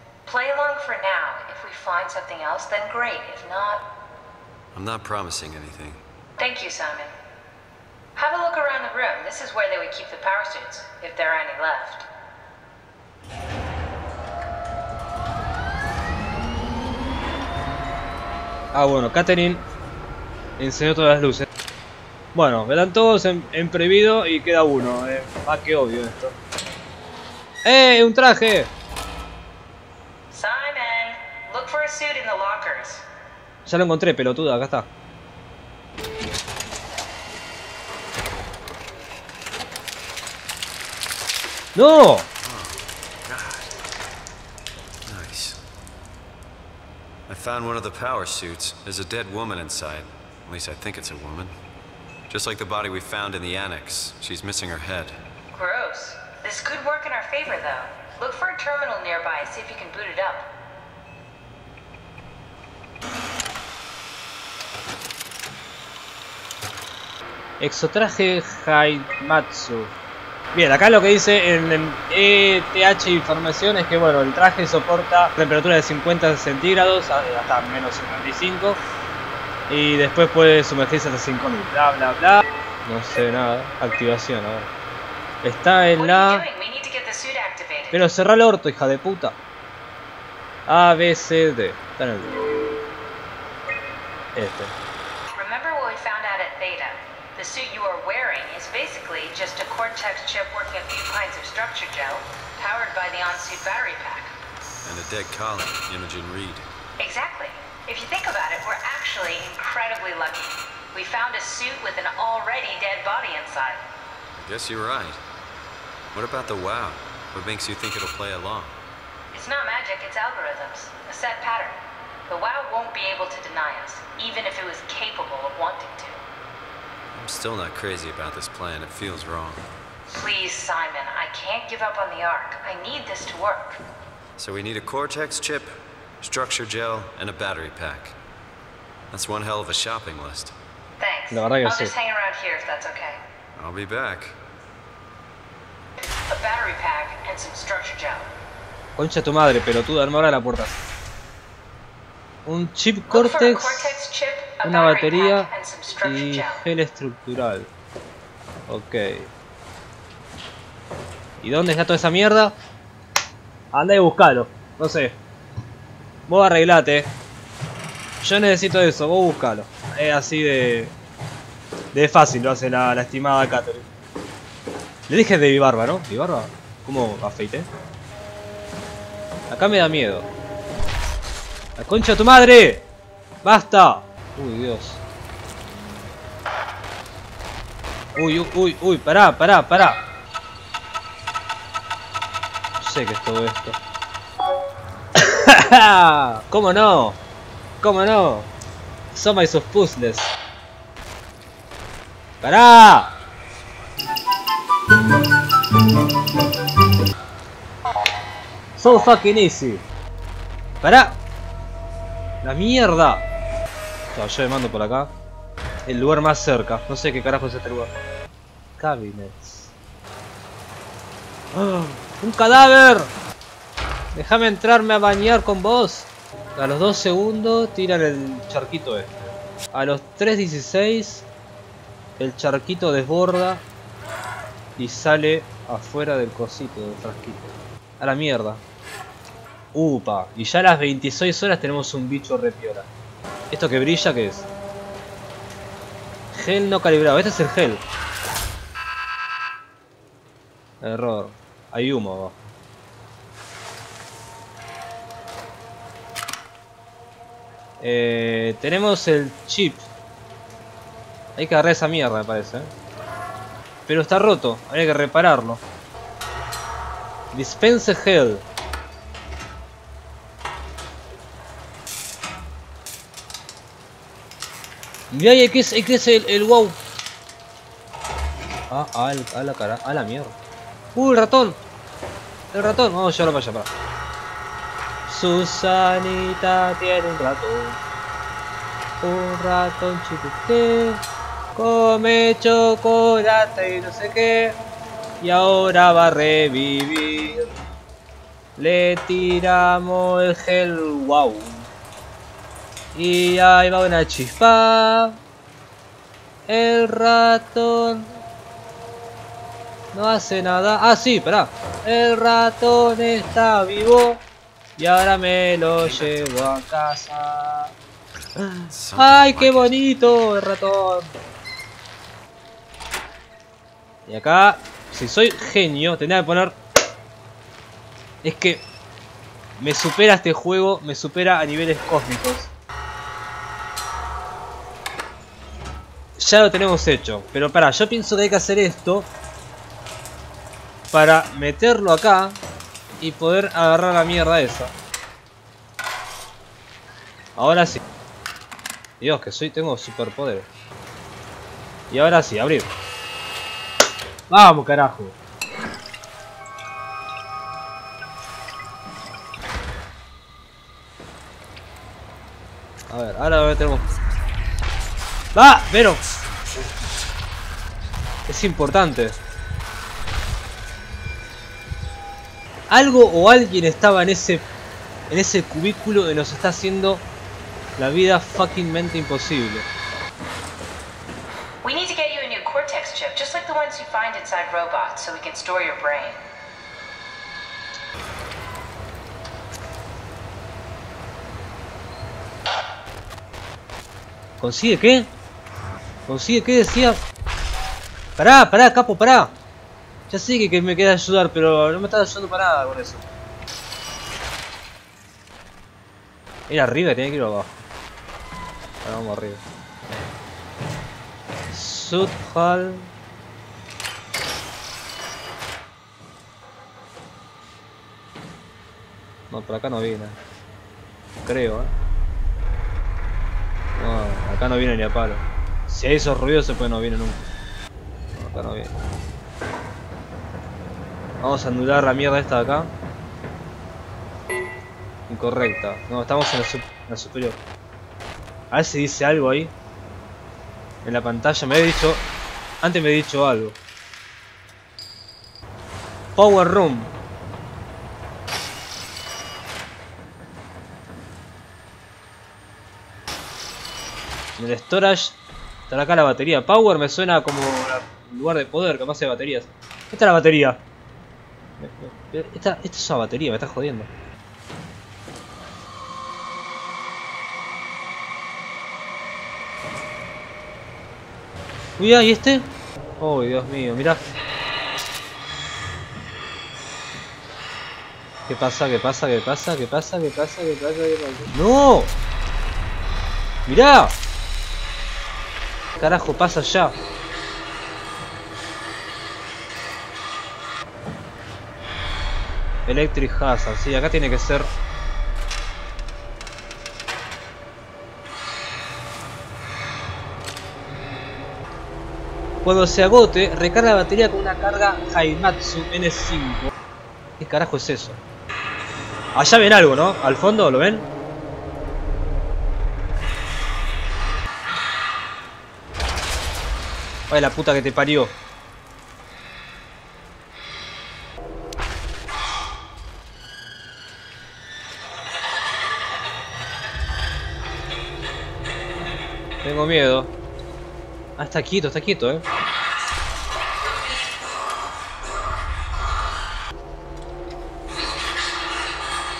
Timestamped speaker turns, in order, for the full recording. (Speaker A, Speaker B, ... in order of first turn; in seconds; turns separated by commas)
Speaker A: 0.2-3.8, Speaker B: 4.7-6.0, Speaker A: 6.4-7.1, Speaker A: 8.2-12.1, Speaker C: 18.7-19.6, Speaker C: 20.6-21.5, Speaker C: 22.3-26.4, Speaker C: 27.6-28.7, Speaker A: 30.3-33.0, Speaker C: 33.6-34.9, Speaker C: 41.7-42.3, Speaker B: 42.4-43.7, Speaker B: 45.0-45.6, Speaker B: 47.3-51.5, Speaker B: 52.3-55.1, Speaker A: 55.5-60.5, Speaker C: 67.6-69.9, Speaker C: 70.5-78.8, Speaker C: 79.7-84.7, Speaker C: 85.4-86.4, Speaker A: 86.0-88.0, Speaker C: 87.9-89.4, Speaker C: 90.7-92.3, Speaker C: 94.3-94.7, Speaker A: 95.3-104.3, Speaker B: 104.8-106.7, Speaker A: 107.0-113.8, Speaker B: 114.3-115.2, Speaker B: 116.1-118.8, Speaker A: 119.3-126.2, Speaker B: 127.1-129.6, Speaker A: 130.1-133.8, Speaker B: 134.4-138.2, Speaker B: 139.1-140.5, Speaker A: 141.0-143.2, Speaker C: 141.3-141.9, Speaker B: 143.6-144.3, Speaker A: 146.0-148.3, Speaker C: 148.9-150.8, Speaker C: 152.4-154.0, Speaker A: 153.1-156.6, Speaker C: 154.6-155.5, Speaker C: 156.0-157.7, Speaker C: 158.7-159.3, Speaker C: 161.4-162.6, Speaker C: 163.7-165.2, Speaker C: 166.3-167.1, Speaker C: 168.2-170.9, Speaker C: 171.9-173.9, Speaker C: 175.1-177.7, Speaker C: 179.5-180.3, Speaker C: 181.8-182.8, Speaker C: 183.4-185.0, Speaker C: 188.2-190.0, Speaker C: 192.8-193.8, Speaker C: 195.2-197.2, Speaker C: 197.8-198.5, Speaker C: 199.1-200.3, Speaker C: 202.4-203.1, Speaker C: 208.8-209.8, Speaker C: 210.8-211.2, Speaker C: 212.4-213.2, Speaker C: 214.1-215.1, Speaker C: 215.8-217.9, Speaker C: 218.8-219.7, Speaker C: 221.5-223.1, Speaker C: 224.1-231.3, Speaker C: 232.2-233.6, Speaker C: 234.8-238.6, Speaker C: 239.7-242.9, Speaker C: 243.5-244.5, Speaker C: 246.3-247.8, Speaker C: 250.8-252.4, Speaker C: 257.8-259.9, Speaker C: 261.4-262.7, Speaker C: 263.9-265.6, Speaker C: 267.3-268.4, Speaker C: 275.1-276.8, Speaker C: 278.7-280.4, Speaker C: 280.9-281.6, Speaker C: 282.5-283.7, Speaker C: 285.1-287.8, Speaker C: 289.0-294.6, Speaker C: 295.2-297.5, Speaker C: 298.6-301.7, Speaker C: 302.9-305.2, Speaker C: 306.5-308.2, Speaker C: 309.9-314.2, Speaker C: 314.8-317.7, Speaker B: 315.8-316.6, Speaker B: 318.1-319.7, Speaker C: 318.9-321.1, Speaker C: 324.1-326.6, Speaker C: 328.2-328.7, Speaker C: 329.6-332.5, Speaker C: 336.2-339.1, Speaker C: 340.9-342.4, Speaker C: 343.0-344.7, Speaker C: 347.4-347.8, Speaker C: 349.0-350.5, Speaker C: 351.9-352.7, Speaker C: 354.3-355.1, Speaker C: 362.9-363.9, Speaker C: 365.3-366.0, Speaker C: 368.3-369.2, Speaker C: 372.7-374.5, Speaker C: 375.1-377.0, Speaker C: 377.8-379.7, Speaker A: 381.6-386.2, Speaker C: 394.4-395.1, Speaker C: 396.1-397.0, Speaker C: 398.2-399.3, Speaker C: 400.1-403.1, Speaker C: 406.5-407.5, Speaker C: 408.8-409.4, Speaker C: 411.5-412.9, Speaker C: 419.3-420.2, Speaker C: 421.2-421.7, Speaker C: 423.8-427.3, Speaker C: 428.1-428.7, Speaker C: 431.2-432.7, Speaker C: 435.1-437.4, Speaker C: 438.5-439.5, Speaker C: 440.8-442.0, Speaker C: 442.6-443.6, Speaker C: 446.1-446.9, Speaker C: 454.4-455.2, Speaker C: 455.7-460.6, Speaker C: 461.6-463.9, Speaker C: 471.8-474.0, Speaker C: 478.3-481.9, Speaker C: 483.4-484.0, Speaker C: 485.8-486.8, Speaker C: 492.6-494.5, Speaker C: 502.4-506.5, Speaker C: 507.2-508.0, Speaker C: 509.1-510.9, Speaker C: 517.1-518.1, Speaker C: 529.4-530.1, Speaker C: 531.2-532.2